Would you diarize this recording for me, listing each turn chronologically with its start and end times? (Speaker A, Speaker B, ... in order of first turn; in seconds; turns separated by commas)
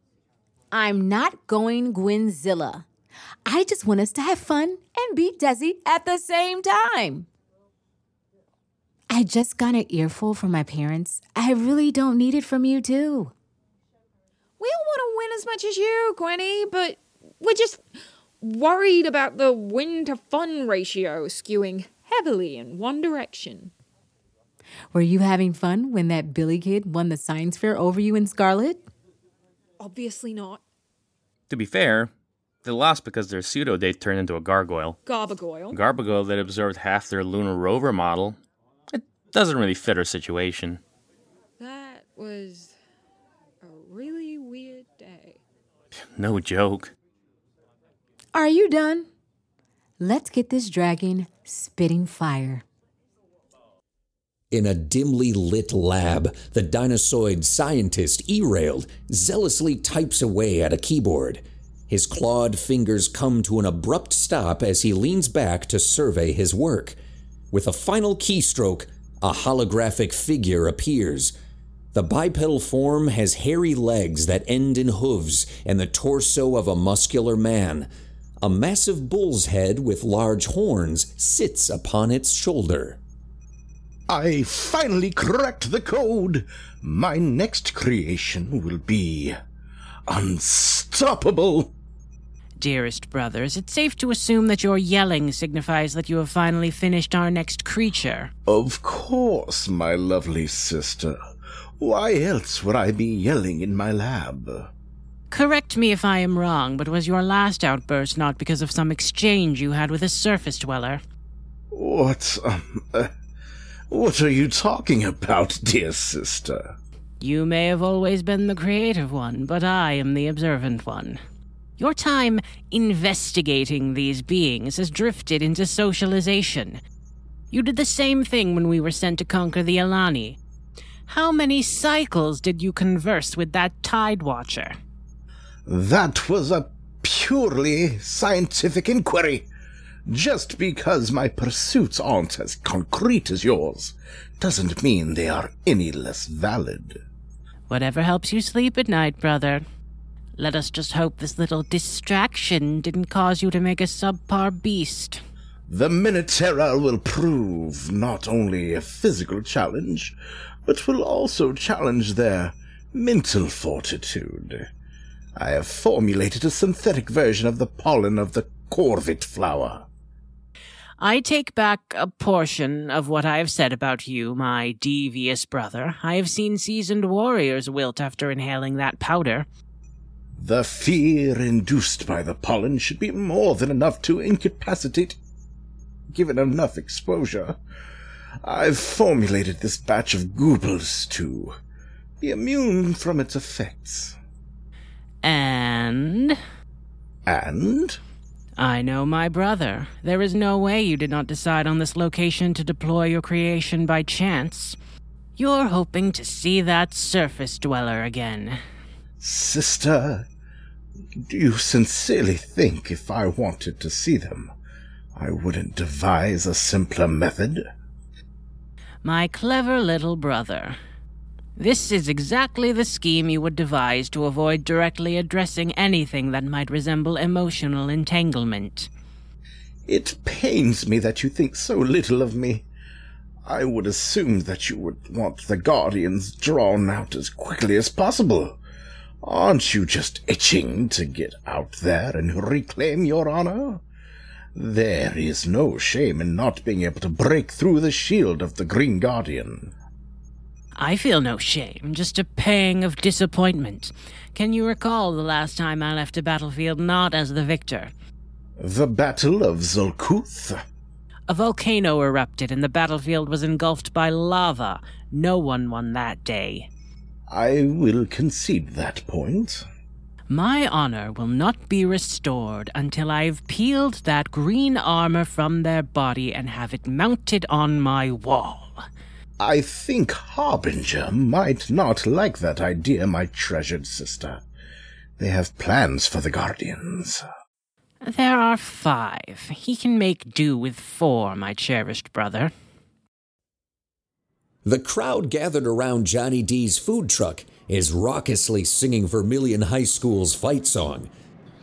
Speaker A: 0.7-2.9, Speaker A: 3.5-7.3, Speaker A: 9.1-13.3, Speaker B: 14.6-17.8, Speaker B: 18.4-23.7, Speaker A: 24.9-28.9, Speaker B: 29.8-30.6, Speaker C: 31.5-32.1, Speaker C: 32.6-35.0, Speaker B: 35.0-35.8, Speaker C: 35.7-38.4, Speaker C: 38.9-40.8, Speaker B: 41.6-42.7, Speaker B: 43.6-45.4, Speaker C: 46.1-46.9, Speaker A: 48.3-49.1, Speaker A: 50.0-52.6, Speaker D: 54.5-67.0, Speaker D: 67.5-71.3, Speaker D: 71.9-77.9, Speaker D: 78.4-83.0, Speaker E: 84.1-89.4, Speaker E: 90.1-91.7, Speaker F: 92.6-98.3, Speaker E: 98.5-101.2, Speaker E: 101.8-104.7, Speaker F: 105.3-111.0, Speaker E: 111.7-113.1, Speaker E: 113.9-116.8, Speaker F: 117.2-121.2, Speaker F: 121.8-126.8, Speaker F: 127.5-130.4, Speaker F: 131.1-134.8, Speaker E: 135.7-139.5, Speaker E: 140.1-147.0, Speaker F: 147.7-149.6, Speaker F: 150.4-155.2, Speaker E: 155.7-160.1, Speaker E: 160.7-164.7, Speaker E: 165.3-169.8, Speaker F: 171.0-179.5, Speaker E: 180.4-185.2, Speaker E: 186.1-187.6, Speaker E: 188.4-191.6, Speaker E: 192.2-194.2, Speaker F: 195.2-196.4, Speaker E: 197.3-198.0, Speaker F: 198.6-204.8, Speaker F: 205.4-208.6, Speaker E: 209.2-210.2, Speaker E: 211.2-214.5, Speaker E: 215.2-217.7, Speaker F: 219.0-220.8, Speaker F: 221.6-228.9, Speaker E: 229.9-232.7, Speaker E: 233.4-238.6, Speaker E: 239.2-243.8, Speaker E: 244.5-249.7, Speaker F: 250.8-257.9, Speaker E: 258.6-260.6, Speaker F: 261.3-266.7, Speaker E: 267.3-269.6, Speaker F: 270.3-278.8, Speaker E: 279.4-284.4, Speaker E: 285.2-287.2, Speaker F: 288.0-292.5, Speaker D: 294.6-301.1